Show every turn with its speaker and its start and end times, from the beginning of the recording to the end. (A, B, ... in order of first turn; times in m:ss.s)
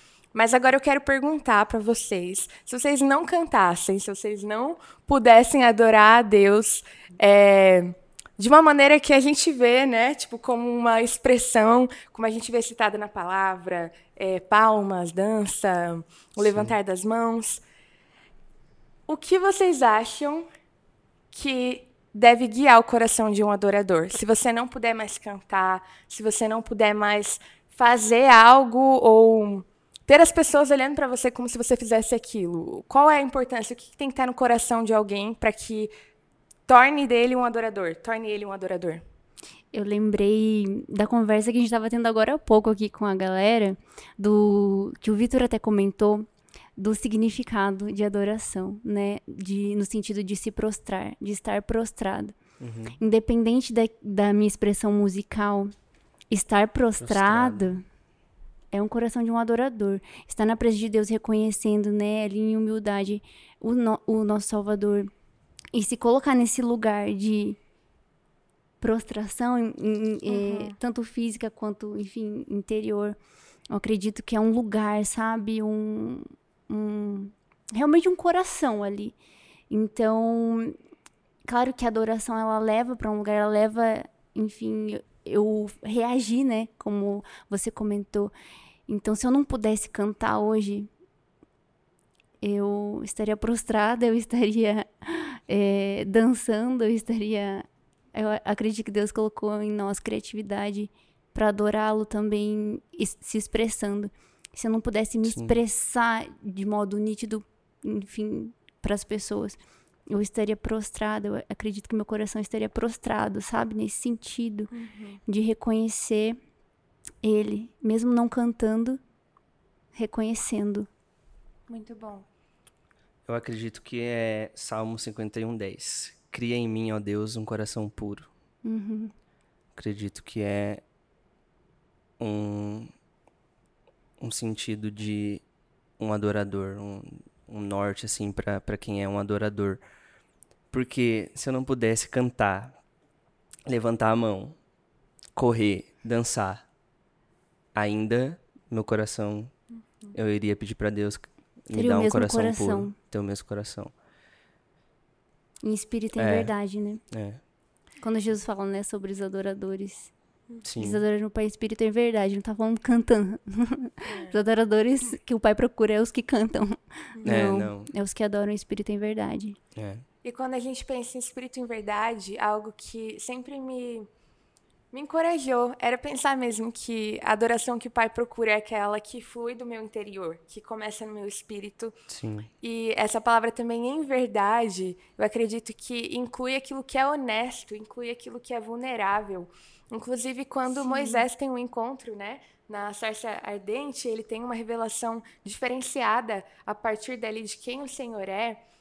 0:00.3-0:17.6 A
0:16.4-0:16.8 B
0:19.1-0:20.5 A
0:21.3-0:35.9 A
0:36.7-0:39.0 A
0:39.7-0:52.4 C
0:52.6-0:53.0 B
0:53.0-0:55.7 C
0:56.3-0:57.8 C
0:57.0-0:57.7 B
0:58.7-1:05.1 C
1:05.7-1:07.6 C
1:08.8-1:13.2 C
1:10.3-1:10.8 A
1:13.7-1:19.1 C
1:19.7-1:20.8 C
1:21.4-1:28.3 C
1:28.9-1:30.9 C
1:32.4-1:49.6 C
1:45.3-1:45.6 B
1:50.1-1:54.7 C
1:54.7-1:55.2 A
1:55.3-1:56.4 C
1:57.2-1:59.0 C
1:59.9-2:00.9 C
2:01.7-2:02.2 A
2:03.3-2:08.3 B
2:08.6-2:09.1 C
2:09.8-2:10.8 B
2:12.2-2:12.9 B
2:14.2-2:15.4 B
2:16.0-2:19.8 B
2:20.7-2:22.8 B
2:23.7-2:24.6 B
2:25.4-2:26.6 B
2:27.7-2:29.5 B
2:30.1-2:33.9 B
2:31.7-2:32.9 C
2:35.6-2:37.0 C
2:36.2-2:36.5 B
2:37.1-2:37.4 B
2:38.0-2:40.1 C
2:40.6-2:41.0 B
2:40.8-2:49.6 C
2:44.1-2:44.3 A
2:47.2-2:47.9 B
2:49.7-2:50.0 B
2:50.2-2:54.1 A
2:54.9-3:02.0 A
3:02.1-3:02.5 B
3:02.6-3:18.6 A
3:10.7-3:11.2 C